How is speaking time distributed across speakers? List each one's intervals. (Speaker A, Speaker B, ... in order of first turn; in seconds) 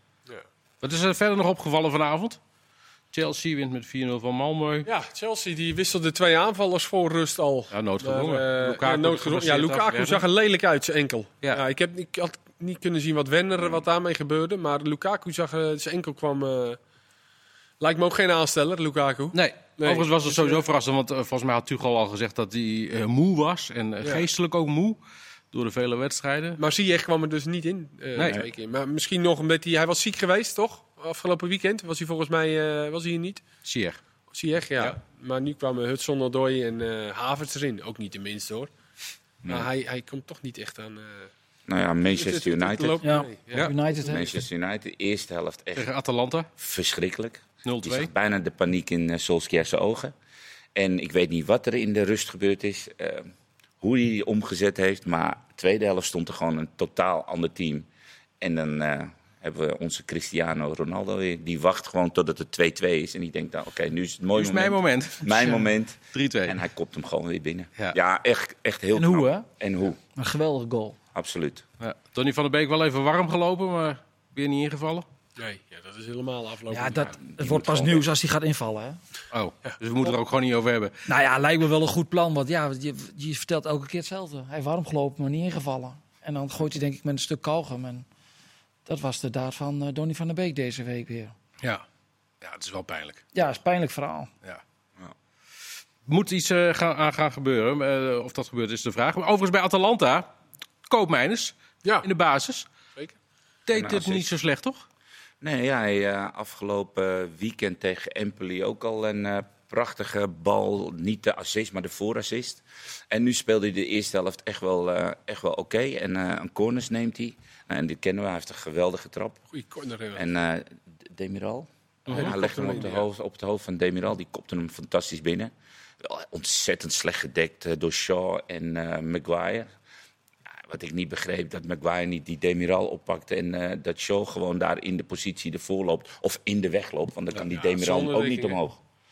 Speaker A: 0.8-2.4, 3.1-4.9, 7.7-10.2, 19.3-25.0, 25.5-26.6, 28.2-28.4, 33.6-34.0, 45.8-46.5, 47.6-48.1, 64.3-65.6, 66.1-66.6, 71.8-75.1, 79.3-80.9, 92.4-93.2, 96.1-100.3, 100.9-102.7, 103.7-104.8, 122.1-122.3
Speaker B: 4.9-16.8, 17.8-20.6, 26.6-33.4, 34.3-38.7, 39.5-41.3, 42.1-43.7, 75.4-77.1, 119.5-120.3, 122.1-123.1, 137.5-138.6
Speaker C: 39.4-39.7, 41.7-43.0, 44.1-45.9, 46.6-50.1, 50.8-57.9, 58.4-70.0, 71.1-71.6, 77.1-78.1, 103.7-104.3, 105.4-119.4, 120.2-129.7, 130.7-138.8
Speaker D: 43.0-44.3, 68.9-69.5, 70.2-71.0, 76.7-79.0, 81.1-88.1, 88.9-91.3, 93.3-94.3